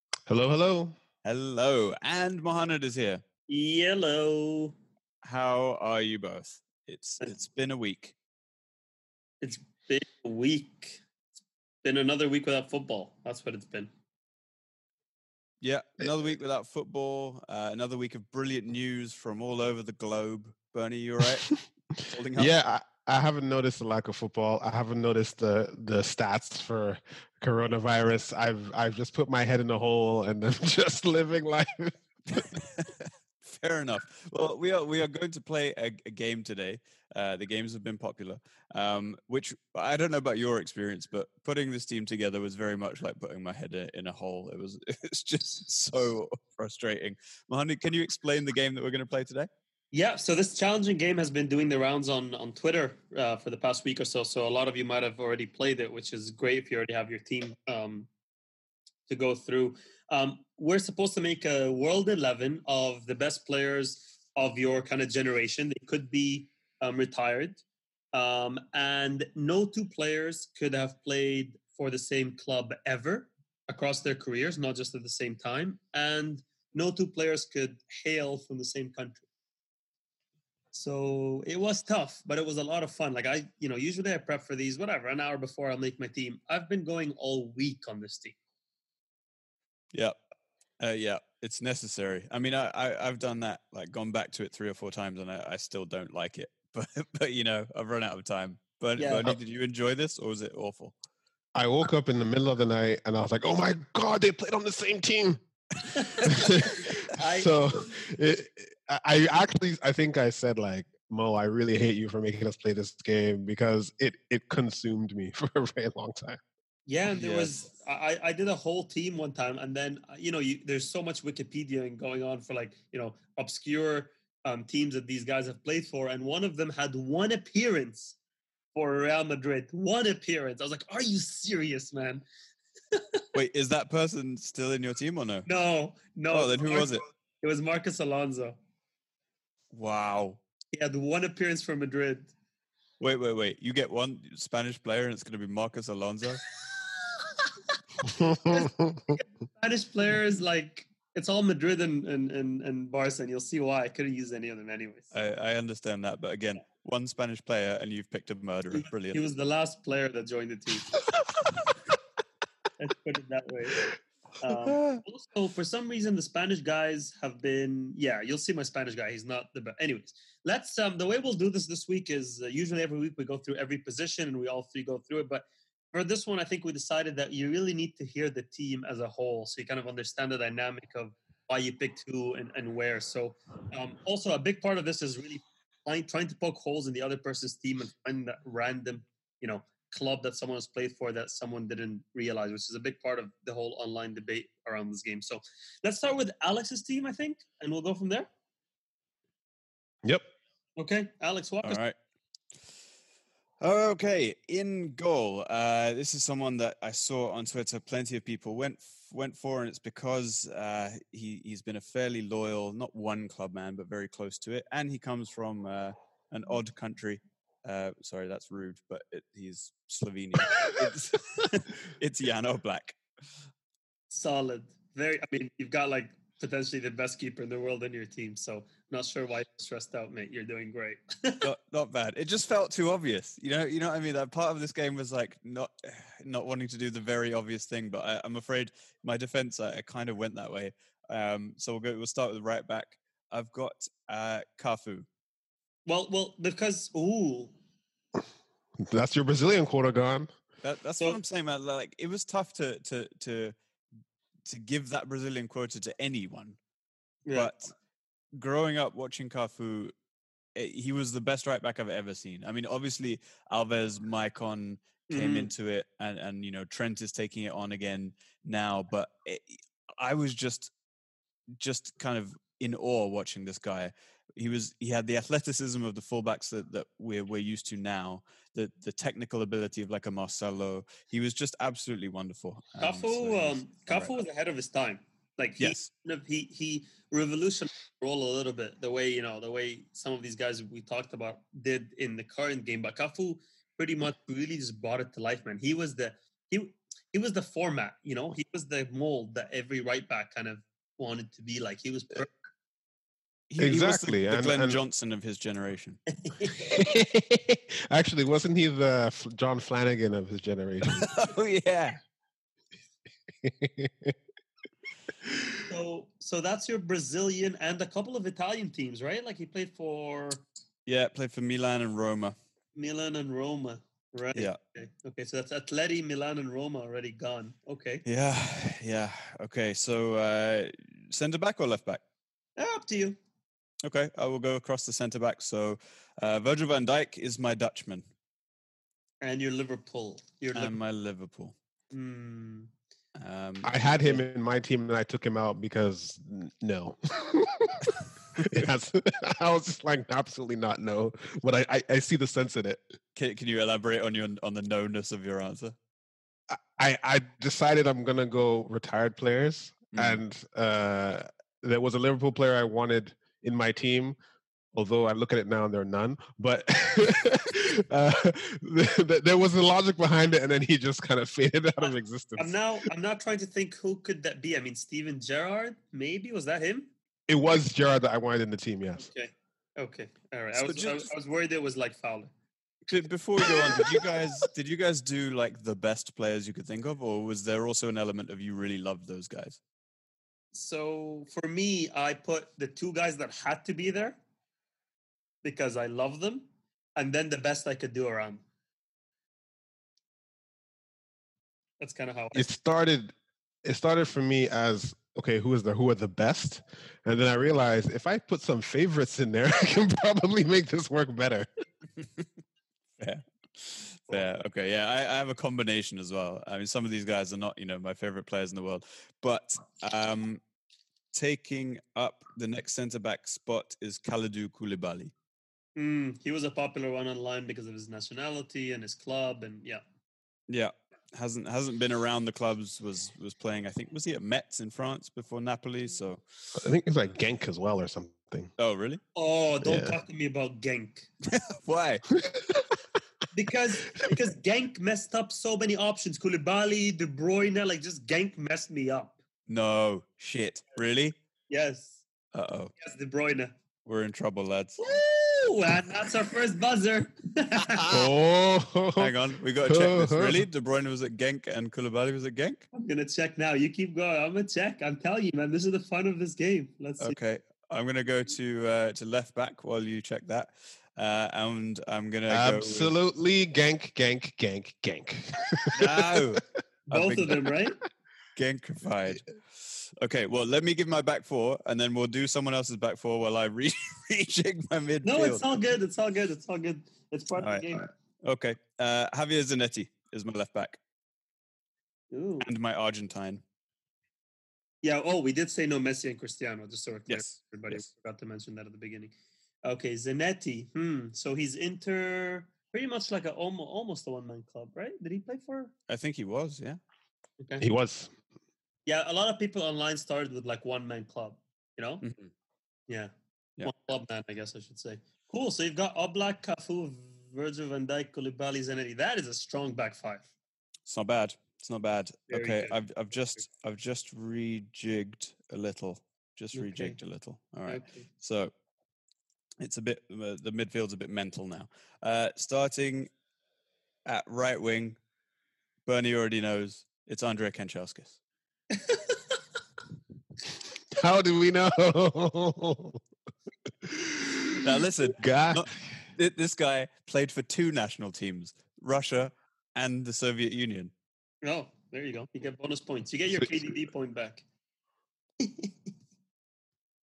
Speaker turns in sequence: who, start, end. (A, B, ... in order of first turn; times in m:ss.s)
0:00.3-0:01.0 A
0:01.2-0:03.2 B
0:03.5-0:04.8 C
0:05.2-0:08.2 B
0:09.4-0:11.0 C
0:11.8-0:13.9 C
0:15.6-0:22.5 B
0:22.4-0:32.4 A
0:32.3-0:49.5 B
0:49.9-0:58.1 C
0:59.1-1:07.6 C
1:08.1-1:19.2 C
1:20.7-1:28.4 C
1:30.8-1:40.9 B
1:39.0-1:39.3 C
1:41.6-1:45.4 A
1:45.8-1:47.5 C
1:46.2-1:56.4 A
1:56.9-2:08.2 C
1:57.1-1:57.5 B
2:08.8-2:12.2 C
2:12.9-2:13.2 C
2:13.3-2:15.5 B
2:15.5-2:18.6 C
2:16.3-2:17.0 B
2:19.7-2:20.4 B
2:20.7-2:22.3 C
2:23.0-2:26.4 B
2:28.1-2:28.9 A
2:28.2-2:35.1 C
2:35.1-2:39.2 B
2:38.7-2:40.9 C
2:42.8-2:43.8 C
2:44.4-3:18.3 C
2:44.5-2:45.0 B
3:20.8-3:21.8 C
3:21.6-3:22.0 B
3:23.6-3:43.0 B
3:44.1-3:51.5 C
3:51.4-4:05.1 B
4:05.9-4:07.5 C
4:08.8-4:10.3 A
4:10.6-4:13.6 B
4:14.5-4:16.6 B
4:17.3-4:17.5 C
4:17.3-4:17.7 B
4:18.3-4:19.9 B
4:20.6-4:30.7 B
4:25.1-4:25.5 C
4:31.6-4:44.1 B
4:42.8-5:02.3 C
4:45.6-4:45.9 B
5:03.5-5:06.0 B
5:03.6-5:04.8 A
5:06.2-5:06.8 C
5:06.6-5:11.1 A
5:10.9-5:12.0 B
5:13.4-5:14.2 A
5:15.7-5:20.4 C
5:20.9-5:22.4 B
5:22.8-5:28.0 C
5:28.1-5:32.0 B
5:32.6-5:33.2 C
5:33.8-5:38.0 B
5:39.2-5:40.8 C
5:40.6-5:41.6 B
5:41.9-5:42.7 C
5:43.2-5:44.2 B
5:43.6-5:53.0 A
5:53.2-5:55.8 B
5:56.5-6:04.2 A
5:59.9-6:00.2 B
6:04.7-6:12.6 A
6:12.4-6:16.9 C
6:17.3-6:19.1 A
6:19.0-6:22.3 C
6:20.5-6:21.1 B
6:22.9-6:29.6 B
6:30.5-6:34.2 C
6:35.4-6:38.4 C
6:41.8-6:42.5 C
6:42.4-6:43.1 A
6:43.6-6:51.5 A
6:53.0-7:00.4 B
7:01.1-7:05.1 B
7:05.8-7:09.8 C
7:10.5-7:16.5 B
7:16.6-7:18.5 A
7:18.6-7:19.0 B
7:19.2-7:21.1 C
7:19.6-7:20.0 A
7:21.2-7:22.1 B
7:22.1-7:22.6 A
7:23.3-7:29.2 C
7:29.5-7:31.2 B
7:31.5-7:32.0 C
7:32.3-7:32.7 B
7:32.8-7:33.5 C
7:33.8-7:34.8 B
7:34.8-7:38.0 C
7:37.8-7:39.1 A
7:39.0-7:42.6 B
7:39.6-7:40.5 A
7:42.7-7:47.2 C
7:47.0-7:52.9 B
7:52.3-7:56.4 A
7:55.7-7:57.5 B
7:56.9-7:57.8 C
7:58.4-8:05.5 B
8:05.0-8:07.9 C
8:07.4-8:10.8 B
8:12.1-8:12.5 C
8:12.4-8:13.4 B
8:14.8-8:19.1 C
8:17.1-8:17.9 B
8:19.6-8:25.7 C
8:25.9-8:26.8 B
8:27.6-8:28.1 A
8:28.9-8:32.0 C
8:32.0-8:32.3 B
8:33.6-8:40.3 C
8:40.9-8:48.5 B
8:42.3-8:42.8 C
8:46.5-8:47.0 C
8:47.7-8:48.1 C
8:49.6-8:53.1 B
8:54.1-8:55.0 B
8:55.9-8:58.2 B
8:58.7-8:59.2 C
9:00.9-9:03.0 A
9:03.8-9:05.7 A
9:04.6-9:10.9 B
9:11.4-9:14.4 C
9:15.4-9:15.7 C